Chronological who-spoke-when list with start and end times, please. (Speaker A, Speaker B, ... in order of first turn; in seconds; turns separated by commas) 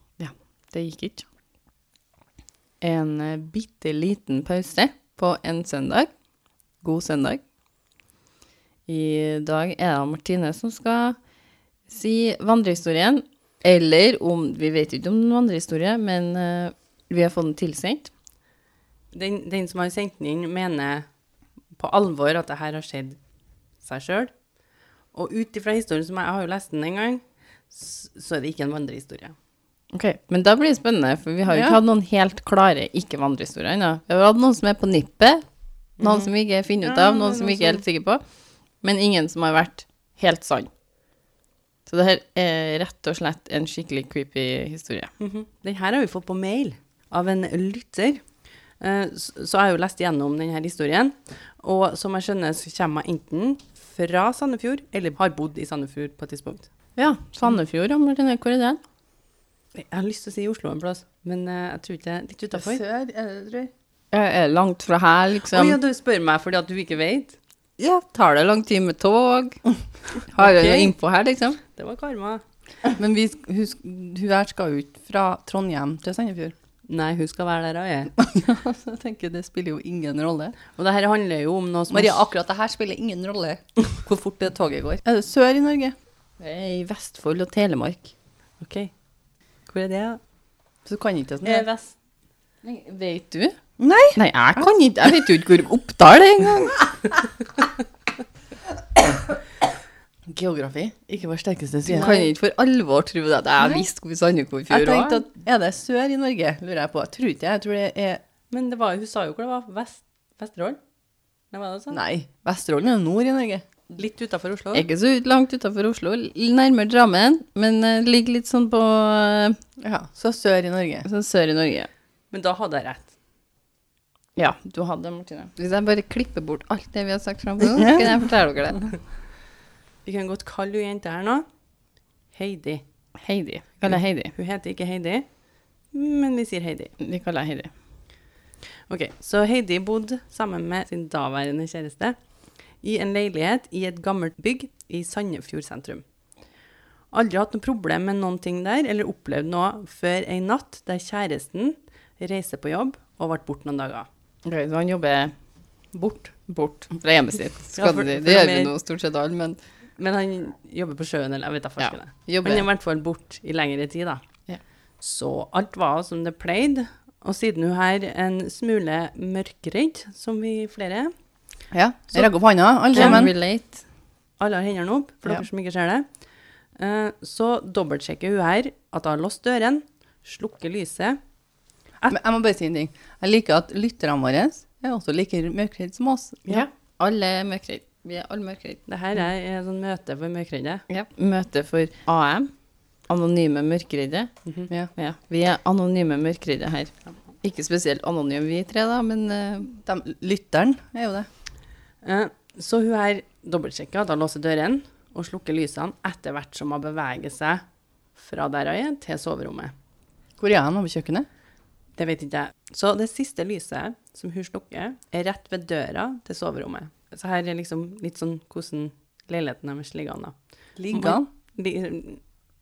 Speaker A: 0.2-1.3, Speaker A: 2.8-6.1, Speaker A: 6.8-7.4, Speaker A: 8.9-11.2, Speaker A: 11.9-18.1, Speaker B: 19.1-21.1, Speaker B: 21.8-23.2, Speaker B: 23.8-24.3, Speaker B: 25.1-29.4, Speaker A: 29.9-35.4, Speaker C: 31.5-31.8, Speaker B: 36.0-36.3, Speaker A: 36.0-38.2, Speaker B: 36.8-37.9, Speaker A: 38.8-40.7, Speaker A: 41.9-45.1, Speaker B: 45.2-48.2, Speaker B: 48.8-56.7, Speaker A: 57.0-58.8, Speaker B: 59.8-62.8, Speaker C: 62.5-63.7, Speaker A: 64.1-65.8, Speaker B: 65.5-67.4, Speaker A: 67.8-69.6, Speaker A: 70.3-71.6, Speaker B: 70.4-70.9, Speaker B: 71.8-72.4, Speaker C: 73.0-76.5, Speaker B: 76.9-78.1, Speaker C: 78.2-80.6, Speaker B: 80.7-82.3, Speaker C: 81.9-86.0, Speaker A: 86.4-88.1, Speaker B: 88.6-88.9, Speaker B: 89.7-90.2, Speaker C: 90.9-91.7, Speaker B: 91.4-91.9, Speaker A: 92.6-93.6, Speaker C: 93.8-94.7, Speaker A: 94.2-97.1, Speaker C: 100.3-102.2, Speaker B: 101.8-102.3, Speaker A: 101.9-105.3, Speaker C: 103.6-103.9, Speaker C: 104.7-108.2, Speaker B: 108.5-110.8, Speaker B: 111.5-112.0, Speaker C: 111.9-113.7, Speaker B: 113.9-114.9, Speaker A: 114.7-119.6, Speaker C: 119.8-121.1, Speaker A: 121.0-121.9, Speaker B: 122.3-123.1, Speaker A: 124.4-129.0, Speaker C: 127.8-128.1, Speaker B: 130.1-131.4, Speaker B: 132.3-132.8, Speaker A: 133.2-134.3, Speaker B: 133.8-135.3, Speaker B: 135.9-136.9, Speaker A: 137.0-137.7, Speaker B: 138.9-142.2, Speaker B: 142.8-146.0, Speaker B: 147.1-154.1, Speaker A: 154.4-155.3, Speaker B: 155.9-156.3, Speaker A: 156.5-159.6, Speaker B: 157.8-158.7, Speaker B: 160.0-164.2, Speaker A: 161.8-162.7, Speaker B: 165.0-171.1, Speaker C: 171.7-173.3, Speaker A: 172.9-173.8, Speaker B: 172.9-173.3, Speaker B: 174.4-176.1, Speaker B: 176.8-181.2, Speaker C: 182.1-186.4, Speaker A: 186.5-188.8, Speaker B: 188.9-190.8, Speaker A: 190.9-192.5, Speaker A: 193.1-194.3, Speaker B: 194.5-194.7, Speaker A: 194.9-199.8, Speaker C: 199.8-201.3, Speaker B: 202.0-207.6, Speaker B: 208.2-209.7, Speaker C: 210.4-211.3, Speaker B: 212.0-220.3, Speaker C: 220.8-221.3, Speaker B: 220.9-222.2